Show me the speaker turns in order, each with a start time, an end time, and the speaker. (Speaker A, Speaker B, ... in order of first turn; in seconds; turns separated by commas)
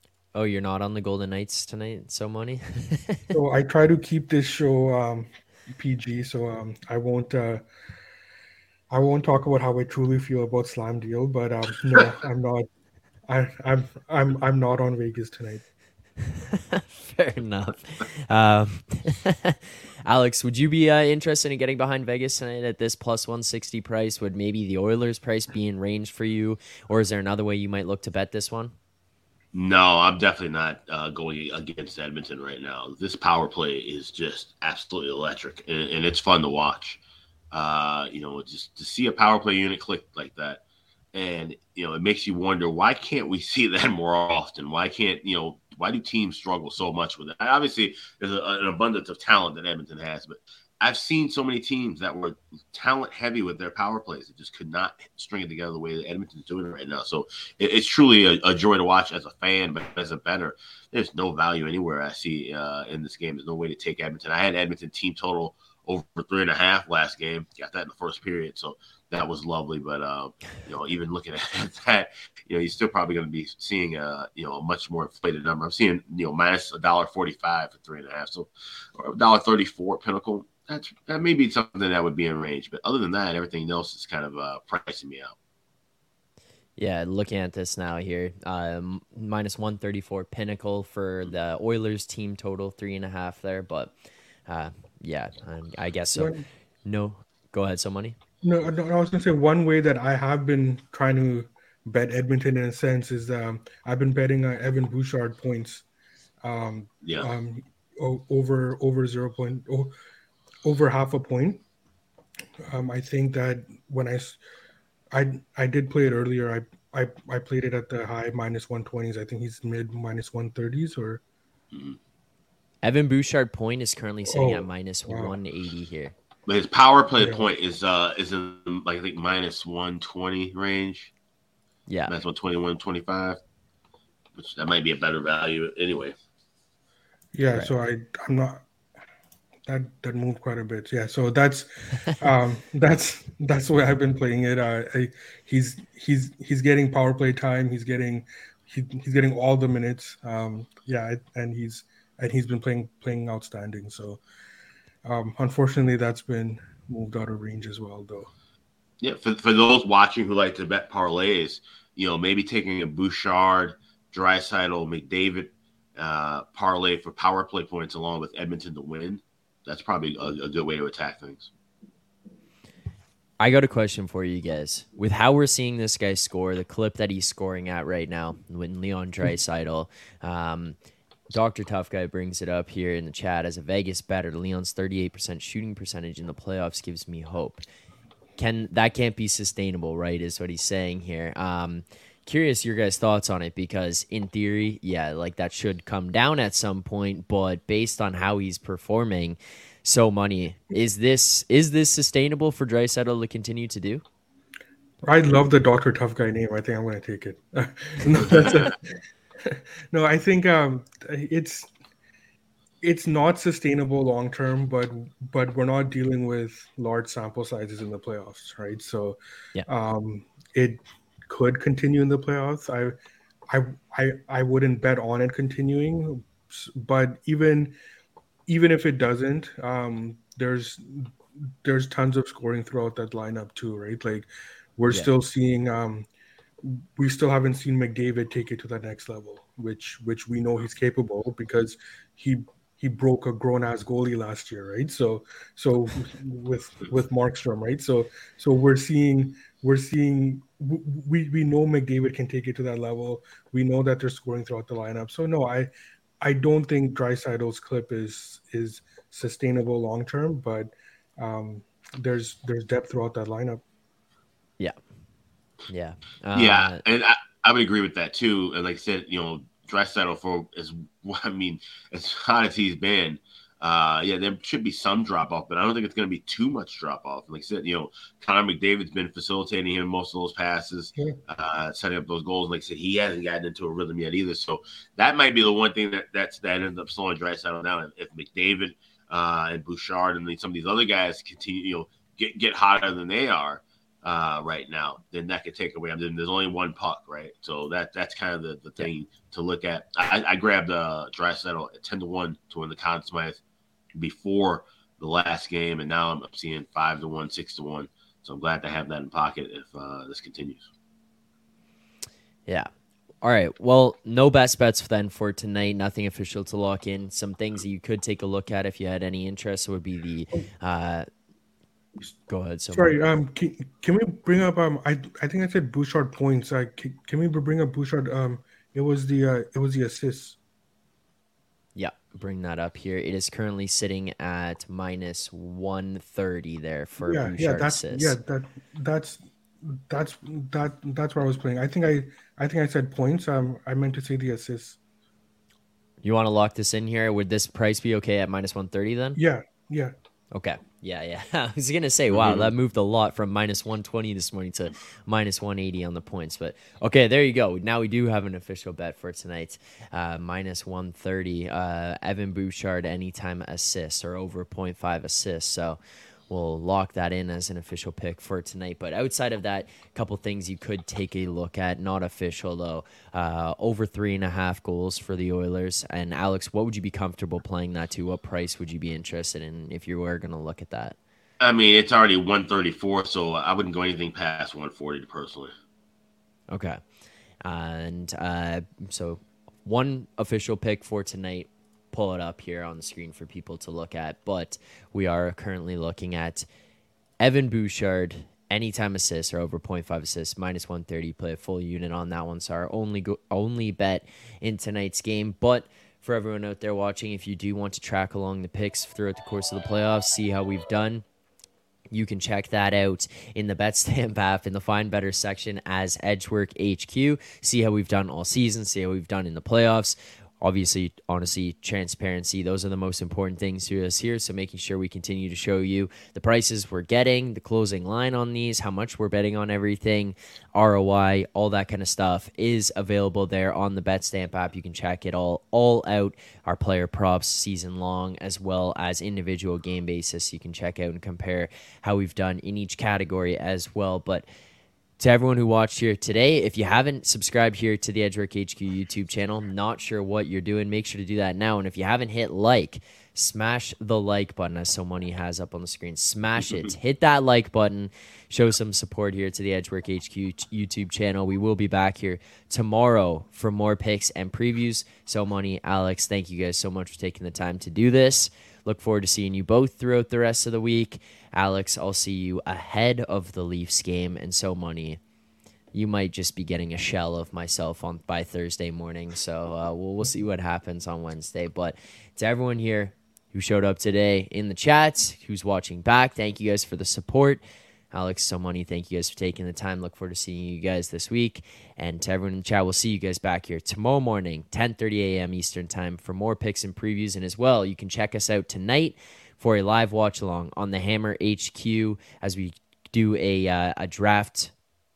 Speaker A: 0.3-3.2, Speaker B: 3.3-7.6, Speaker B: 8.9-12.7, Speaker B: 13.3-15.6, Speaker A: 16.4-28.7, Speaker C: 29.5-37.0, Speaker C: 37.5-40.6, Speaker C: 41.1-85.3, Speaker A: 86.8-93.9, Speaker A: 94.5-96.3, Speaker B: 96.1-96.4, Speaker A: 96.8-98.1, Speaker B: 98.4-105.8, Speaker B: 106.4-109.9, Speaker C: 107.0-107.3, Speaker B: 110.6-111.6, Speaker B: 112.7-114.4, Speaker B: 115.1-121.2, Speaker C: 121.7-122.0, Speaker A: 122.8-126.1, Speaker B: 124.3-125.3, Speaker C: 126.5-131.1, Speaker B: 127.2-127.4, Speaker A: 131.9-132.1, Speaker C: 132.1-133.4, Speaker C: 134.3-136.1, Speaker B: 137.3-138.6, Speaker B: 139.7-154.2, Speaker B: 155.0-158.3, Speaker C: 159.0-171.5, Speaker A: 173.4-180.8, Speaker A: 181.3-187.6, Speaker A: 188.4-204.0, Speaker B: 205.0-211.7, Speaker B: 212.8-222.9, Speaker B: 223.5-227.7, Speaker B: 228.5-236.1, Speaker B: 236.6-255.7, Speaker B: 256.2-263.6, Speaker A: 265.7-266.8, Speaker C: 266.3-303.4, Speaker C: 303.9-310.7, Speaker A: 313.2-321.1, Speaker A: 322.3-322.9, Speaker B: 322.7-330.4, Speaker A: 331.8-338.1, Speaker B: 337.0-344.8, Speaker A: 346.0-349.2, Speaker B: 349.1-349.9, Speaker A: 350.3-380.9, Speaker C: 352.1-352.5, Speaker C: 381.4-385.5, Speaker A: 386.5-386.8, Speaker A: 387.4-396.5, Speaker A: 397.2-411.0, Speaker A: 411.9-444.2, Speaker A: 445.0-475.0, Speaker A: 475.7-504.5